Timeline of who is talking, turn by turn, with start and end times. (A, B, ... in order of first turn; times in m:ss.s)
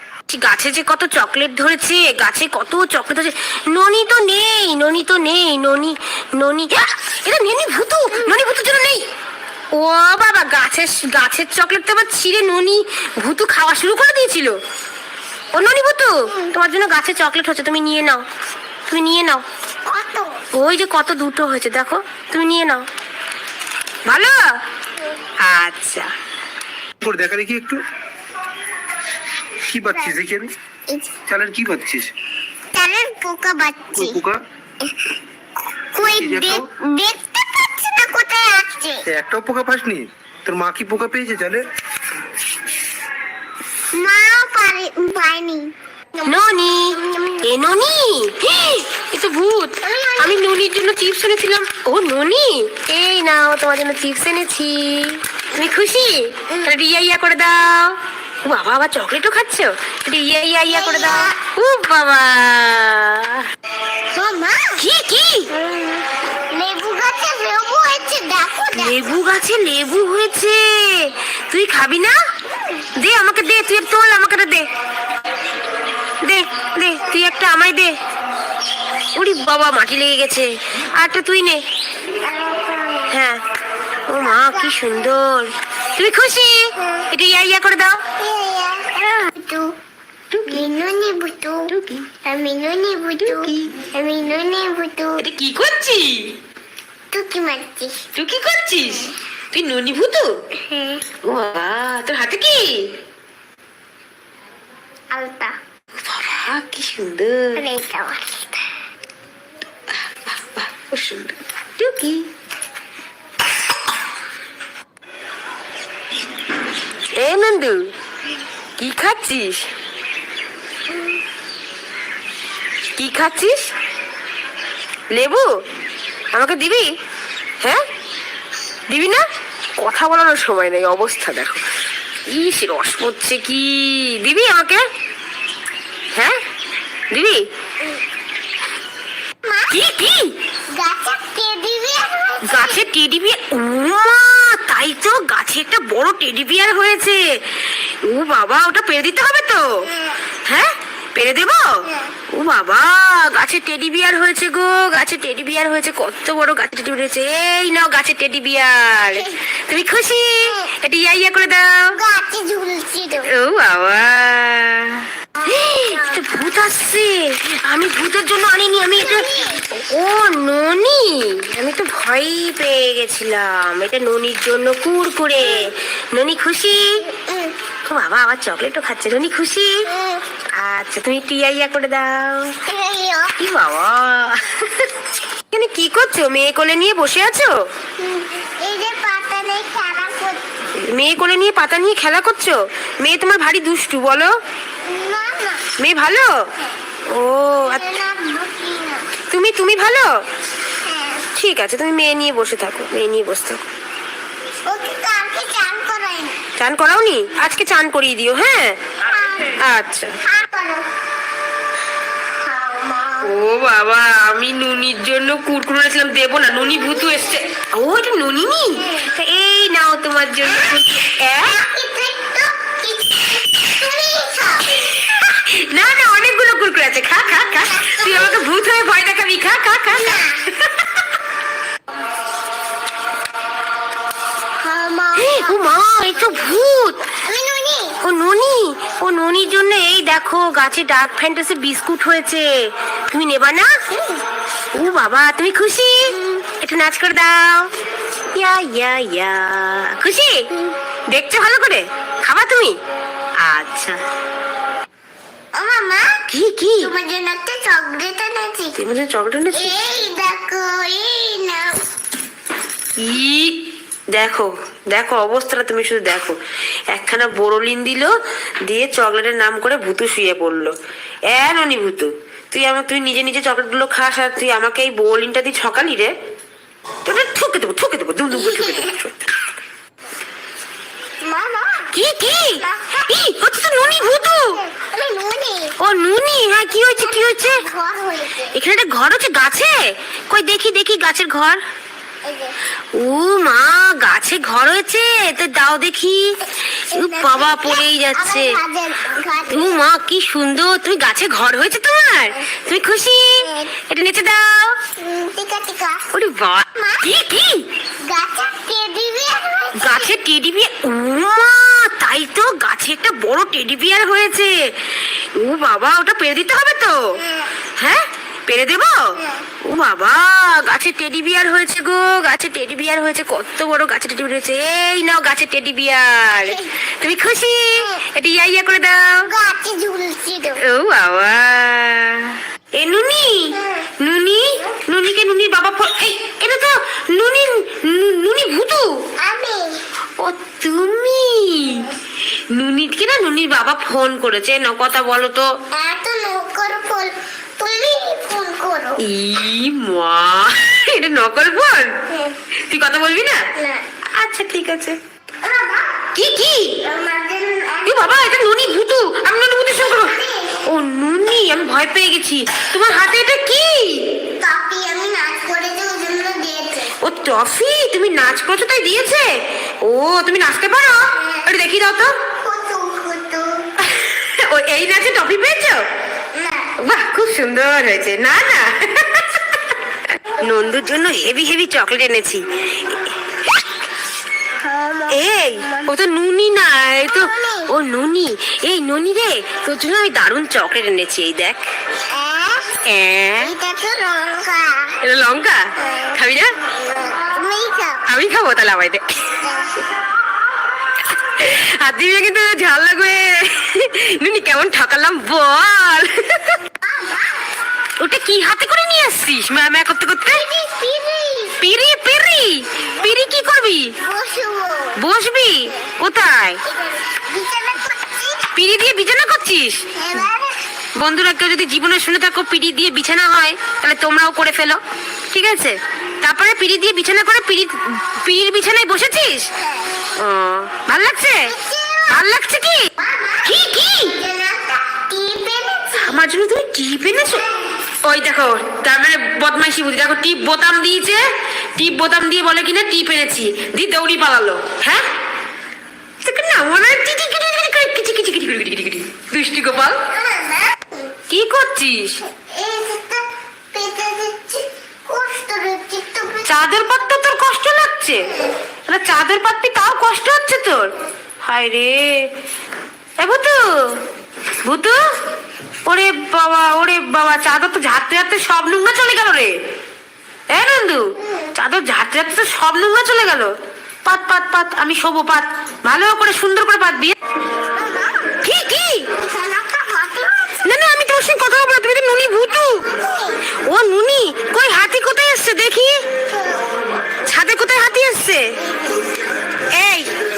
0:00.3-0:09.1 A
0:09.7-0:14.6 A
0:15.5-0:18.2 A
0:18.9-0:19.4 A
0:19.9-0:20.4 B
0:20.5-0:22.9 A
0:24.1-0:24.6 A
0:25.4-0:26.1 A
0:27.0-0:27.8 C
0:29.7-0:30.5 C
0:31.3-0:32.1 C
0:32.7-0:34.2 B
0:33.9-0:34.4 C
0:35.9-0:39.0 B
0:36.0-0:36.6 C
0:39.1-0:41.6 C
0:43.9-0:47.5 B
0:46.2-1:03.5 A
0:49.8-0:50.4 B
1:00.7-1:01.4 B
1:04.1-1:04.8 B
1:04.8-1:05.5 A
1:05.5-1:09.2 B
1:08.7-1:12.2 A
1:13.0-1:14.7 A
1:16.2-1:18.0 A
1:19.1-1:21.6 A
1:22.2-1:23.1 B
1:23.1-1:23.4 A
1:24.1-1:28.0 A
1:24.2-1:24.8 B
1:28.2-1:29.7 B
1:30.3-1:30.7 A
1:30.5-1:31.7 B
1:31.7-1:32.1 A
1:32.2-1:35.2 B
1:33.2-1:33.8 A
1:35.2-1:36.3 A
1:37.1-1:38.0 B
1:38.1-1:40.3 A
1:40.7-1:41.0 B
1:41.2-1:42.9 A
1:45.1-1:45.6 B
1:46.0-1:47.6 A
1:47.6-1:48.6 B
1:50.1-1:52.3 A
1:57.1-1:57.9 A
1:58.8-1:59.7 A
2:03.0-2:03.7 A
2:05.1-2:05.6 A
2:06.3-2:06.9 A
2:08.9-2:09.2 A
2:09.8-2:11.6 A
2:12.3-2:14.8 A
2:16.1-2:16.4 A
2:17.1-2:17.5 A
2:19.4-2:19.7 B
2:19.7-2:20.4 A
2:20.7-2:22.8 B
2:22.4-2:29.9 A
2:29.9-2:30.2 B
2:30.4-2:42.0 A
2:31.9-2:32.1 B
2:41.9-2:43.3 B
2:43.2-2:57.0 A
2:45.4-2:46.6 B
2:49.0-2:49.6 B
2:57.1-2:57.6 B
2:57.9-2:59.9 A
2:59.9-3:00.2 B
3:00.5-3:02.6 A
3:02.7-3:03.3 B
3:03.4-3:05.0 A
3:05.5-3:07.7 A
3:08.0-3:10.4 B
3:10.8-3:14.4 A
3:14.8-3:15.7 B
3:15.8-3:16.5 A
3:17.1-3:17.9 A
3:17.6-3:19.1 B
3:19.3-3:20.2 A
3:20.8-3:21.3 B
3:21.3-3:23.6 A
3:24.6-3:26.4 B
3:26.6-3:28.9 A
3:29.1-3:29.6 B
3:29.5-3:30.2 A
3:30.2-3:30.9 B
3:32.4-3:33.4 B
3:33.2-3:41.6 A
3:36.9-3:37.4 B
3:40.5-3:40.8 B
3:41.4-3:44.9 B
3:45.0-3:50.8 A
3:47.5-3:48.4 B
3:49.9-3:50.4 B
3:54.6-3:56.6 B
3:55.2-3:57.1 A
3:57.1-3:58.0 B
3:58.0-4:03.8 A
4:03.9-4:04.2 B
4:04.7-4:07.7 A
4:06.2-4:06.4 B
4:08.3-4:10.5 A
4:11.1-4:12.8 A
4:13.4-4:14.0 A
4:15.5-4:16.2 B
4:16.3-4:16.9 A
4:16.8-4:18.8 B
4:18.8-4:19.7 A
4:19.5-4:21.8 B
4:23.0-4:23.6 A
4:24.1-4:26.4 A
4:26.9-4:30.7 A
4:31.3-4:36.1 A
4:37.0-4:39.4 A
4:38.4-4:38.9 B
4:41.2-4:41.9 B
4:41.9-4:44.6 A
4:42.6-4:43.1 B
4:44.5-4:45.7 B
4:45.8-4:47.6 A
4:46.8-4:48.6 B
4:48.5-4:51.6 A
4:52.2-4:52.6 B
4:52.9-4:56.4 A
4:56.9-4:58.6 A
4:56.9-4:59.8 B
4:59.5-5:04.8 A
5:03.4-5:03.7 B
5:05.0-5:06.1 B
5:06.1-5:07.7 A
5:06.7-5:07.0 B
5:08.0-5:10.1 B
5:09.8-5:17.2 A
5:17.2-5:17.5 B
5:17.8-5:29.3 A
5:29.2-5:30.6 B
5:30.6-5:39.0 A
5:33.6-5:33.9 B
5:39.2-5:39.8 B
5:40.2-5:41.9 A
5:42.5-5:45.6 A
5:45.7-5:49.0 B
5:49.0-5:52.0 A
5:52.6-5:53.5 A
5:53.6-5:53.9 B
5:54.1-5:55.0 A
5:55.4-5:56.0 B
5:56.1-5:56.8 A
5:56.8-5:58.1 B
5:57.9-6:04.1 A
5:59.8-6:00.6 B
6:04.4-6:07.0 B
6:07.0-6:12.2 A
6:12.4-6:13.7 B
6:13.8-6:15.8 A
6:16.3-6:16.7 B
6:16.8-6:19.6 A
6:20.3-6:23.1 A
6:24.6-6:25.9 B
6:25.1-6:31.6 A
6:27.1-6:27.7 B
6:32.1-6:32.8 B
6:32.8-6:33.5 A
6:33.4-6:35.0 B
6:35.0-6:36.6 A
6:35.8-6:38.0 B
6:38.1-6:39.4 A
6:39.4-6:39.8 B
6:41.2-6:46.6 A
6:46.8-6:47.4 B
6:48.0-6:50.4 A
6:50.3-6:51.6 B
6:51.6-6:53.9 A
6:54.0-6:55.0 B
6:55.0-6:56.6 A
6:56.6-6:58.5 B
6:58.5-6:59.9 A
6:59.9-7:00.6 B
7:01.0-7:04.8 A
7:05.3-7:09.5 A
7:09.6-7:09.9 B
7:10.2-7:11.5 A
7:11.5-7:12.2 B
7:12.1-7:12.9 A
7:13.0-7:16.2 B
7:13.4-7:14.1 A
7:15.9-7:17.4 A
7:18.0-7:25.1 A
7:26.2-7:30.0 A
7:30.1-7:31.1 B
7:31.3-7:32.2 A
7:32.3-7:36.8 B
7:36.4-7:38.3 A
7:38.9-7:40.9 A
7:41.4-7:42.3 A
7:43.2-7:44.0 A
7:44.6-7:45.0 A
7:45.9-7:49.6 A
7:50.5-7:53.5 A
7:51.2-7:51.5 B
7:54.0-7:57.2 A
7:57.7-7:58.4 B
7:58.4-7:59.1 A
7:59.1-8:00.6 B
8:00.6-8:02.9 A
8:02.8-8:03.4 B
8:03.6-8:06.0 A
8:06.3-8:06.6 B
8:07.2-8:08.6 A
8:08.6-8:09.1 B
8:09.7-8:10.1 A